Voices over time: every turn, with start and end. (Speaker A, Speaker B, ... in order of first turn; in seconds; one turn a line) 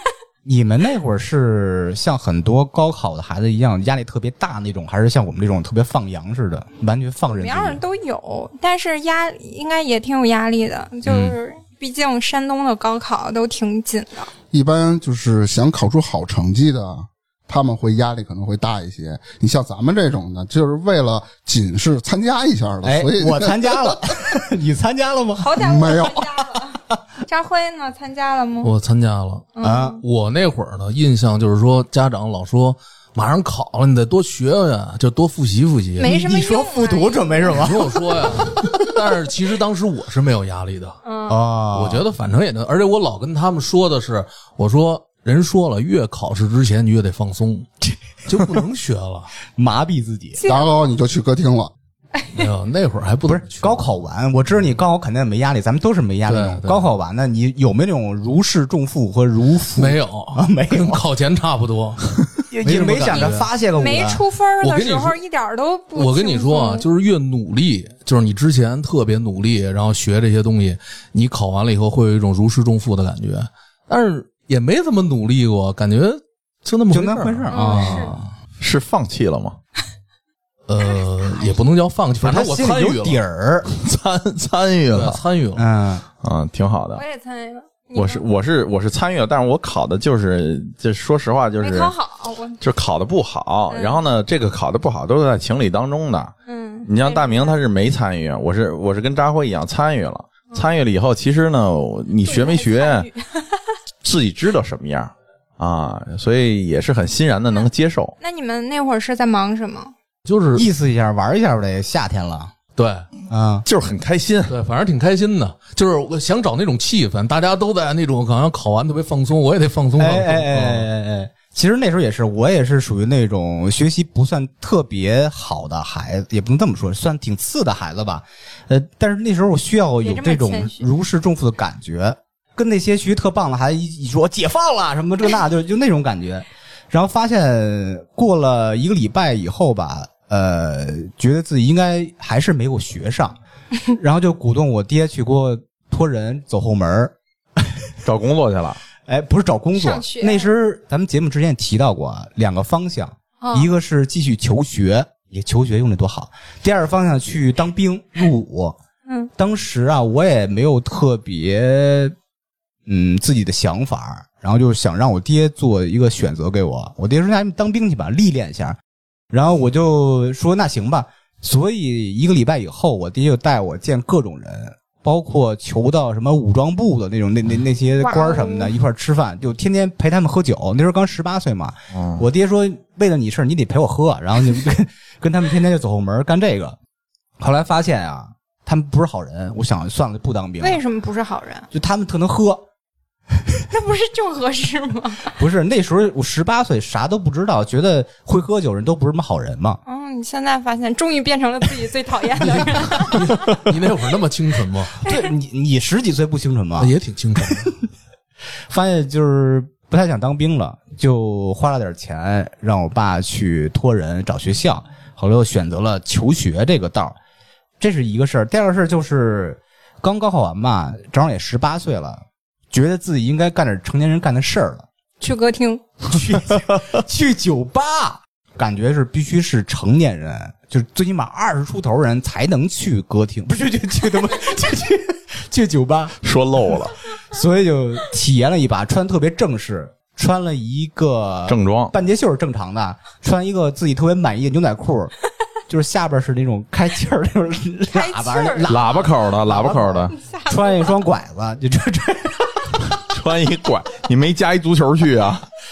Speaker A: 0.4-7.8
Speaker B: 7.3-14.3
Speaker A: 11.1-11.3
Speaker C: 14.5-24.2
Speaker A: 22.8-25.6
Speaker B: 25.4-28.7
Speaker C: 25.6-26.5
Speaker D: 28.6-36.1
Speaker B: 29.6-30.0
Speaker A: 29.6-30.0
Speaker B: 36.0-37.5
Speaker A: 36.0-38.8
Speaker D: 37.5-41.0
Speaker B: 41.0-41.4
Speaker A: 41.3-42.0
Speaker D: 41.7-47.7
Speaker D: 48.2-49.3
Speaker A: 49.5-50.4
Speaker B: 50.4-50.8
Speaker C: 50.4-51.7
Speaker D: 52.3-53.8
Speaker A: 53.2-61.0
Speaker D: 56.3-56.8
Speaker D: 59.8-63.4
Speaker A: 62.5-64.2
Speaker B: 63.1-66.9
Speaker D: 64.6-65.2
Speaker D: 65.9-77.8
Speaker A: 76.9-78.3
Speaker B: 77.5-78.1
Speaker E: 78.6-79.6
Speaker D: 80.7-83.2
Speaker B: 81.3-81.6
Speaker A: 82.2-83.7
Speaker E: 83.7-85.2
Speaker D: 84.9-85.6
Speaker A: 85.6-86.0
Speaker E: 86.2-87.0
Speaker B: 86.9-88.2
Speaker E: 87.9-91.9
Speaker B: 91.6-92.6
Speaker E: 92.6-96.3
Speaker B: 93.7-94.0
Speaker B: 96.5-97.6
Speaker E: 96.9-103.1
Speaker B: 102.2-103.6
Speaker E: 104.0-108.2
Speaker B: 108.2-109.9
Speaker D: 110.2-110.7
Speaker A: 110.5-112.5
Speaker D: 112.8-113.1
Speaker A: 113.3-113.6
Speaker E: 113.7-114.5
Speaker D: 114.5-120.9
Speaker A: 120.0-143.4
Speaker B: 130.0-130.9
Speaker A: 143.9-147.1
Speaker E: 148.0-148.8
Speaker A: 149.1-158.8
Speaker B: 149.8-150.5
Speaker B: 153.4-153.7
Speaker A: 159.4-162.1
Speaker A: 162.9-168.8
Speaker A: 169.3-186.8
Speaker B: 178.0-178.7
Speaker E: 181.9-182.2
Speaker A: 187.4-190.8
Speaker B: 190.6-191.7
Speaker A: 191.7-192.6
Speaker B: 193.7-195.4
Speaker A: 195.4-199.8
Speaker B: 199.9-203.2
Speaker D: 202.4-205.0
Speaker B: 205.0-205.3
Speaker A: 205.1-207.8
Speaker D: 206.8-207.7
Speaker A: 208.7-217.2
Speaker A: 217.8-224.9
Speaker B: 225.2-225.9
Speaker A: 226.0-236.1
Speaker E: 236.2-236.9
Speaker A: 237.3-245.1
Speaker E: 241.5-241.9
Speaker A: 245.7-252.7
Speaker B: 247.9-248.8
Speaker E: 248.6-250.1
Speaker B: 250.1-251.0
Speaker E: 252.9-255.4